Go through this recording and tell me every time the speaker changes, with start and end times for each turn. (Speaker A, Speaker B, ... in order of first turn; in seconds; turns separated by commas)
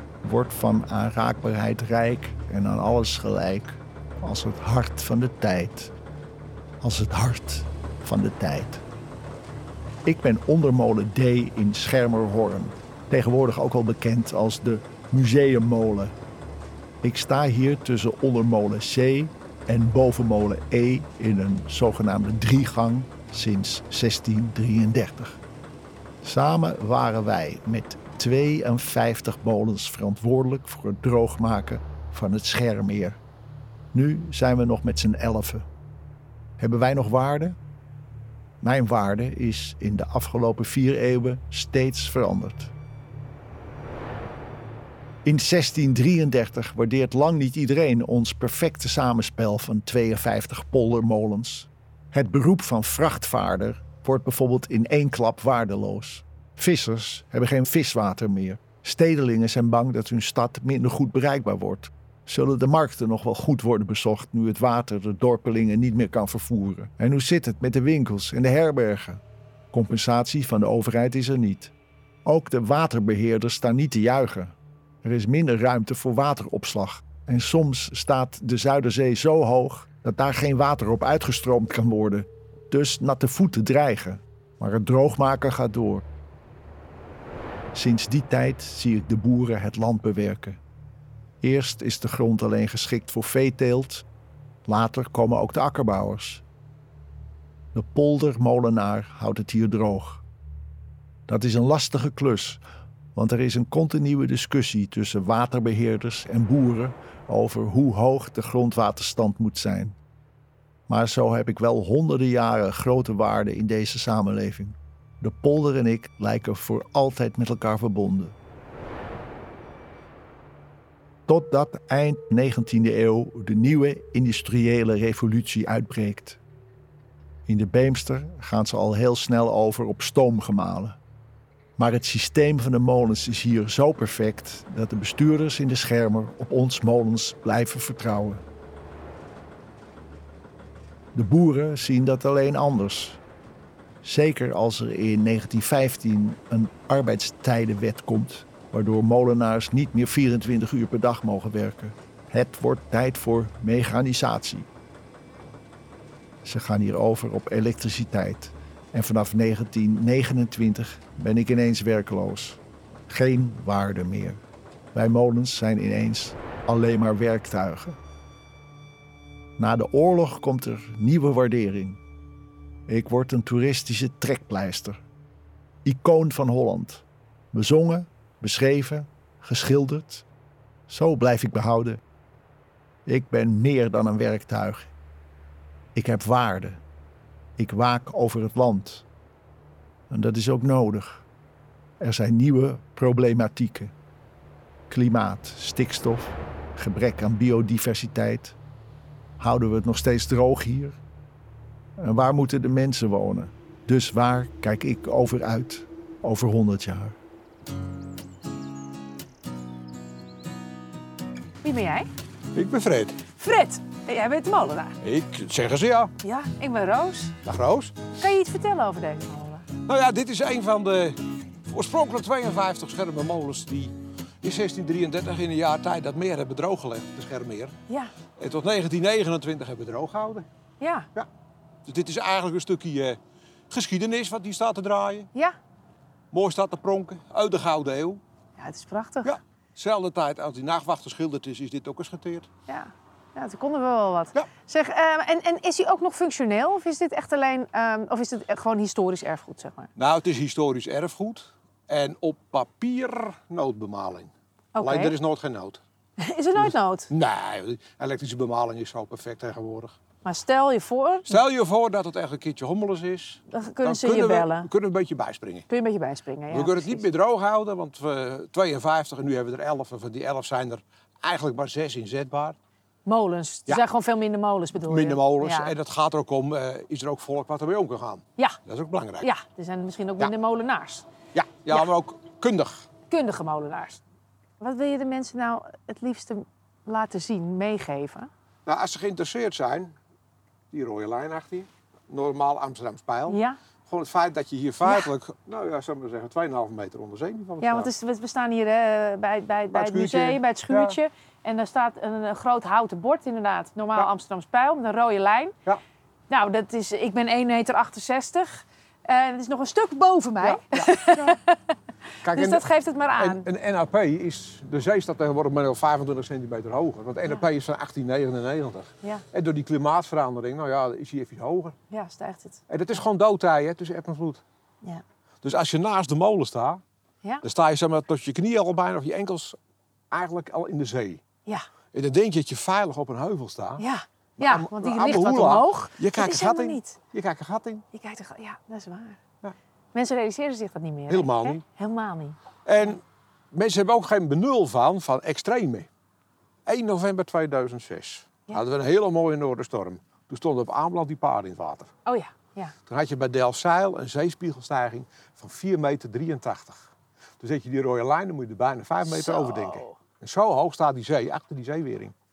Speaker A: 0.2-5.9, Speaker A: 6.8-8.8, Speaker A: 10.1-16.1, Speaker A: 17.0-25.4, Speaker A: 26.2-33.2, Speaker A: 33.9-35.7, Speaker A: 36.6-37.6, Speaker A: 38.6-42.7, Speaker A: 45.2-69.2, Speaker A: 69.7-71.7, Speaker A: 72.2-86.0, Speaker A: 87.8-90.6, Speaker A: 91.4-94.1, Speaker A: 94.7-96.4, Speaker A: 97.7-100.2, Speaker A: 101.3-102.6, Speaker A: 103.2-110.0, Speaker A: 110.9-118.3, Speaker A: 121.3-126.4, Speaker A: 127.5-131.0, Speaker A: 131.8-138.4, Speaker A: 141.1-143.2, Speaker A: 144.0-154.7, Speaker A: 156.4-164.4, Speaker A: 164.9-168.0, Speaker A: 169.6-172.0, Speaker A: 172.9-175.0, Speaker A: 175.8-180.3, Speaker A: 180.9-182.0, Speaker A: 183.1-184.9, Speaker A: 185.9-186.8, Speaker A: 187.6-189.1, Speaker A: 190.1-191.2, Speaker A: 192.0-193.9, Speaker A: 194.9-198.6, Speaker A: 199.4-201.0, Speaker A: 202.0-207.2, Speaker B: 211.6-212.1, Speaker C: 212.6-213.2, Speaker B: 213.3-215.0, Speaker C: 215.0-216.1, Speaker B: 216.2-217.4, Speaker C: 217.4-218.1, Speaker B: 218.2-219.7, Speaker C: 219.9-221.2, Speaker C: 221.7-227.8, Speaker B: 227.9-228.1, Speaker C: 228.4-230.5, Speaker B: 230.8-231.1, Speaker C: 231.8-233.2, Speaker C: 233.7-235.3, Speaker C: 236.3-238.2, Speaker B: 238.6-239.4, Speaker C: 239.2-242.5, Speaker B: 242.7-249.9, Speaker C: 250.0-255.8, Speaker B: 254.8-255.2, Speaker B: 256.2-257.1, Speaker C: 256.6-259.9, Speaker B: 260.2-261.4, Speaker C: 261.3-265.7, Speaker B: 263.5-264.7, Speaker B: 265.7-267.1, Speaker C: 266.5-272.6, Speaker B: 273.1-275.7, Speaker C: 274.8-279.3, Speaker B: 279.2-281.1, Speaker C: 281.3-282.9, Speaker B: 283.1-284.0, Speaker B: 284.6-288.3, Speaker C: 288.7-289.9, Speaker C: 290.7-297.9, Speaker B: 293.3-293.6, Speaker B: 294.8-295.1, Speaker B: 297.6-305.6, Speaker C: 299.7-301.0, Speaker B: 306.3-311.6, Speaker C: 310.4-311.4, Speaker C: 312.2-312.6, Speaker B: 312.3-313.4, Speaker C: 313.2-321.8, Speaker B: 321.9-322.6, Speaker C: 322.7-324.4, Speaker C: 325.4-326.8, Speaker C: 327.4-329.6, Speaker C: 330.1-331.2, Speaker C: 331.9-333.8, Speaker B: 333.8-337.0, Speaker C: 334.4-337.9, Speaker B: 337.9-339.2, Speaker B: 339.9-342.9, Speaker C: 341.1-341.6, Speaker C: 342.7-345.9, Speaker C: 346.7-351.9, Speaker B: 352.1-352.8, Speaker C: 352.9-356.9, Speaker C: 357.4-362.1, Speaker B: 359.1-360.0